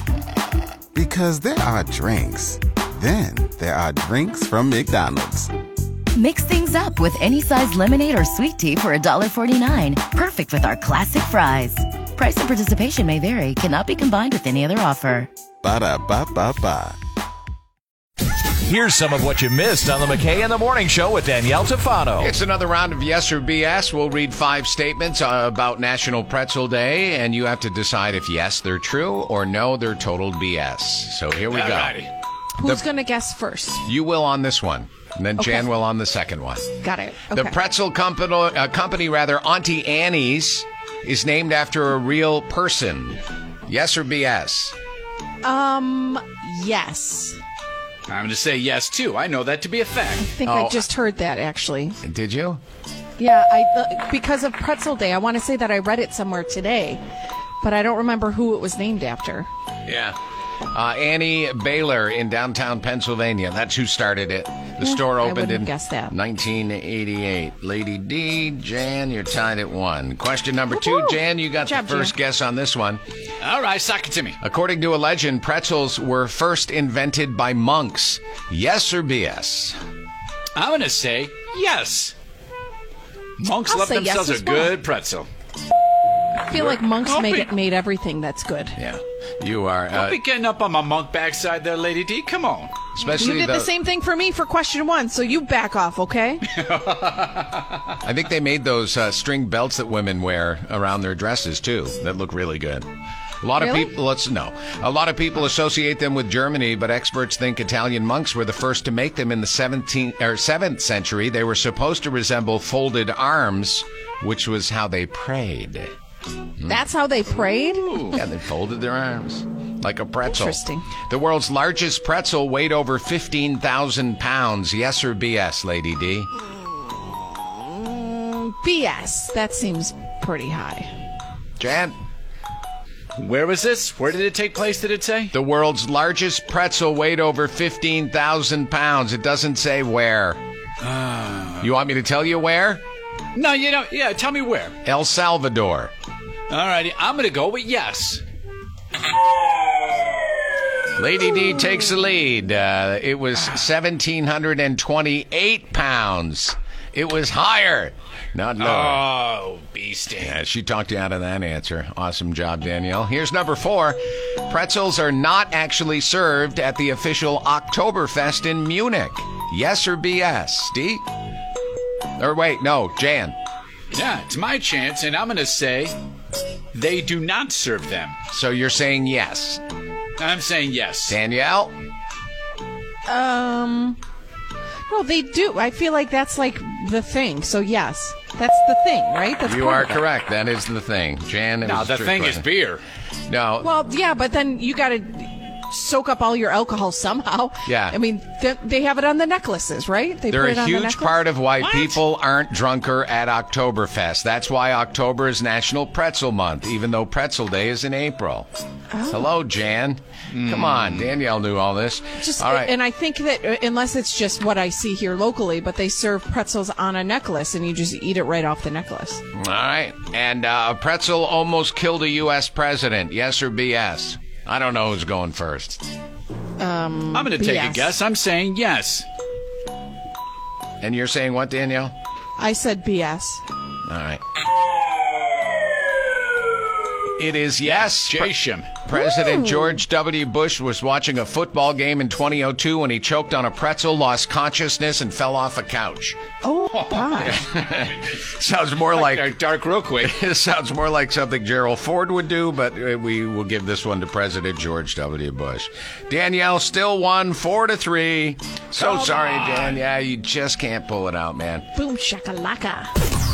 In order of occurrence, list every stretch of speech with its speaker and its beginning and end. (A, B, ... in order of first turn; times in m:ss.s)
0:00.9-0:05.5 A
0:06.2-0:15.3 B
0:15.6-0:17.0 A
0:18.6-0:22.3 C
0:22.2-0:32.0 D
0:31.5-0:32.1 E
0:32.6-0:33.8 F
0:33.8-0:36.7 D
0:35.4-0:35.7 F
0:36.8-0:37.6 F
0:37.3-0:44.8 D
0:45.4-0:47.4 F
0:48.1-0:50.3 E
0:50.2-0:52.0 F
0:50.4-0:50.8 D
0:52.0-0:52.6 D
0:53.2-0:57.0 F
0:57.6-0:59.5 F
0:59.9-1:00.2 D
1:00.7-1:13.0 D
1:04.8-1:06.2 F
1:11.6-1:12.2 F
1:13.4-1:14.4 E
1:14.4-1:19.8 D
1:20.6-1:22.1 E
1:23.4-1:25.3 E
1:23.6-1:24.7 F
1:26.4-1:28.8 F
1:26.6-1:27.5 E
1:28.8-1:30.2 D
1:29.9-1:32.8 E
1:33.0-1:33.7 D
1:33.1-1:36.4 F
1:36.5-1:37.8 E
1:38.0-1:42.9 D
1:43.4-1:55.9 D
1:43.6-1:43.9 F
1:56.7-1:58.2 F
1:58.1-2:06.3 D
2:00.3-2:00.9 F
2:07.9-2:10.9 F
2:11.6-2:12.0 D
2:13.2-2:15.3 E
2:15.3-2:20.4 D
2:20.8-2:21.7 E
2:21.6-2:22.8 D
2:23.4-2:24.8 E
2:24.8-2:25.9 D
2:26.5-2:28.2 E
2:31.0-2:39.0 D
2:38.6-2:40.4 E
2:40.2-2:51.0 D
2:52.2-2:53.4 D
2:53.9-2:56.0 E
2:56.7-2:58.2 E
2:58.3-2:59.6 D
3:00.2-3:01.2 E
3:01.1-3:01.8 D
3:03.1-3:04.0 F
3:04.9-3:10.0 F
3:09.4-3:12.5 D
3:11.6-3:12.8 E
3:13.3-3:13.7 D
3:13.6-3:21.2 F
3:17.7-3:18.0 D
3:20.3-3:28.5 D
3:21.6-3:22.0 E
3:28.9-3:29.3 F
3:29.1-3:32.7 D
3:30.3-3:31.1 E
3:32.2-3:39.2 F
3:39.4-3:45.8 D
3:46.6-3:48.0 F
3:47.1-3:49.1 E
3:50.8-3:52.0 D
3:52.4-3:53.4 F
3:53.9-3:54.2 D
3:57.2-3:58.3 D
3:57.6-3:58.7 E
3:58.8-4:06.2 D
3:58.9-3:59.8 F
4:06.4-4:07.4 F
4:06.7-4:07.4 E
4:07.2-4:09.4 D
4:08.8-4:10.2 E
4:10.0-4:21.7 D
4:18.8-4:19.8 E
4:21.8-4:22.9 F